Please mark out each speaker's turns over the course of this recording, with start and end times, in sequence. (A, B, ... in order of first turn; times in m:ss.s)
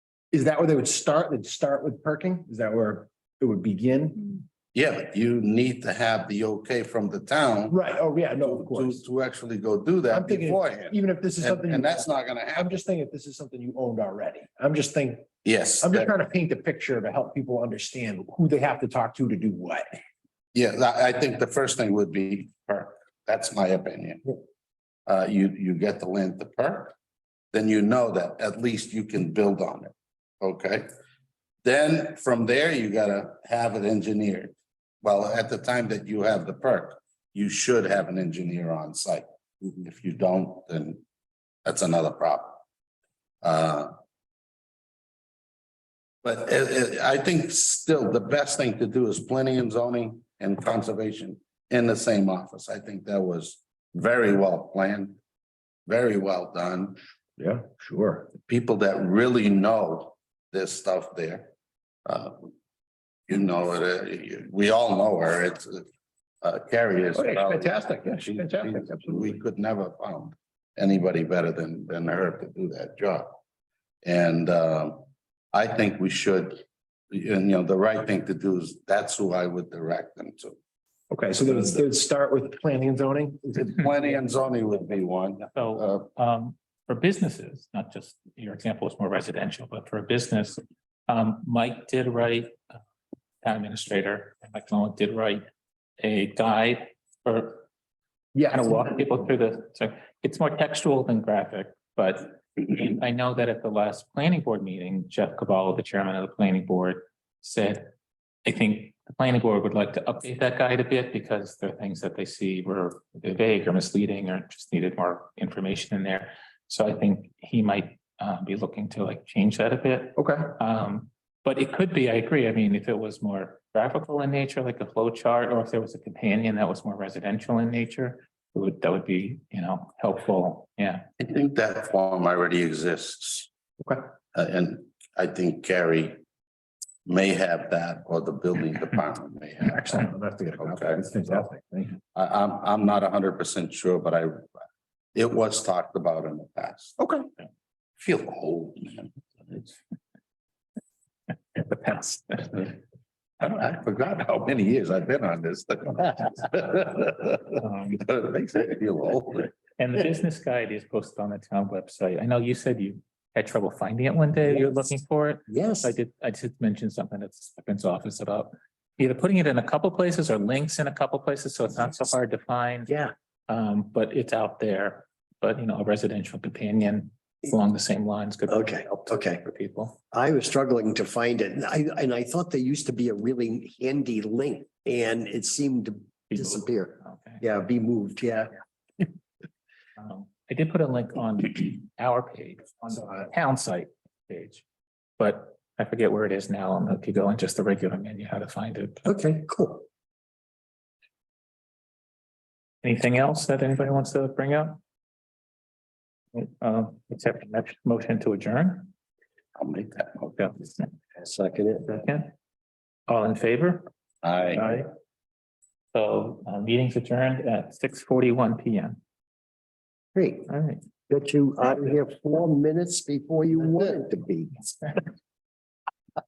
0:00.3-0:04.4 A
0:04.7-0:07.8 B
0:07.7-0:09.0 A
0:08.4-0:12.7 B
0:10.1-0:15.3 A
0:15.4-0:16.1 B
0:15.8-0:20.0 A
0:20.5-0:24.2 B
0:25.1-0:26.9 B
0:27.5-0:30.9 B
0:31.6-0:41.0 B
0:41.6-0:42.6 B
0:43.4-0:43.9 B
0:46.2-0:55.2 B
0:55.9-0:57.0 B
0:57.4-0:58.3 A
0:58.4-1:01.5 B
1:02.1-1:02.5 B
1:03.3-1:05.9 B
1:06.4-1:13.3 B
1:07.1-1:09.4 A
1:14.0-1:20.6 B
1:21.1-1:23.7 A
1:23.5-1:26.1 B
1:25.5-1:32.8 C
1:33.4-1:35.5 C
1:36.0-1:37.7 C
1:38.4-1:39.1 A
1:38.5-1:47.9 C
1:48.4-2:11.1 C
2:00.2-2:00.6 A
2:11.2-2:13.5 B
2:14.3-2:16.2 B
2:17.1-2:20.1 B
2:19.6-2:22.0 A
2:20.6-2:21.5 B
2:22.1-2:24.5 B
2:25.2-2:27.0 B
2:27.0-2:27.3 A
2:28.0-2:29.7 B
2:31.6-2:32.7 C
2:33.4-2:39.5 B
2:37.6-2:38.0 C
2:39.8-2:52.9 C
2:44.5-2:44.7 D
2:45.5-2:46.0 D
2:53.5-3:00.0 C
2:58.5-2:59.4 D
3:00.1-3:08.5 D
3:06.3-3:07.4 C
3:10.0-3:14.6 C
3:15.2-3:19.1 C
3:19.1-3:19.9 D
3:22.8-3:24.8 C
3:26.3-3:28.9 C
3:29.6-3:30.5 B
3:30.4-3:30.8 C
3:31.2-3:32.0 D
3:31.9-3:32.3 C
3:33.1-3:33.9 C
3:34.2-3:34.7 B
3:34.5-3:34.9 C
3:35.9-3:39.0 C
3:40.2-3:40.5 D
3:40.5-3:40.8 C
3:41.1-3:44.9 D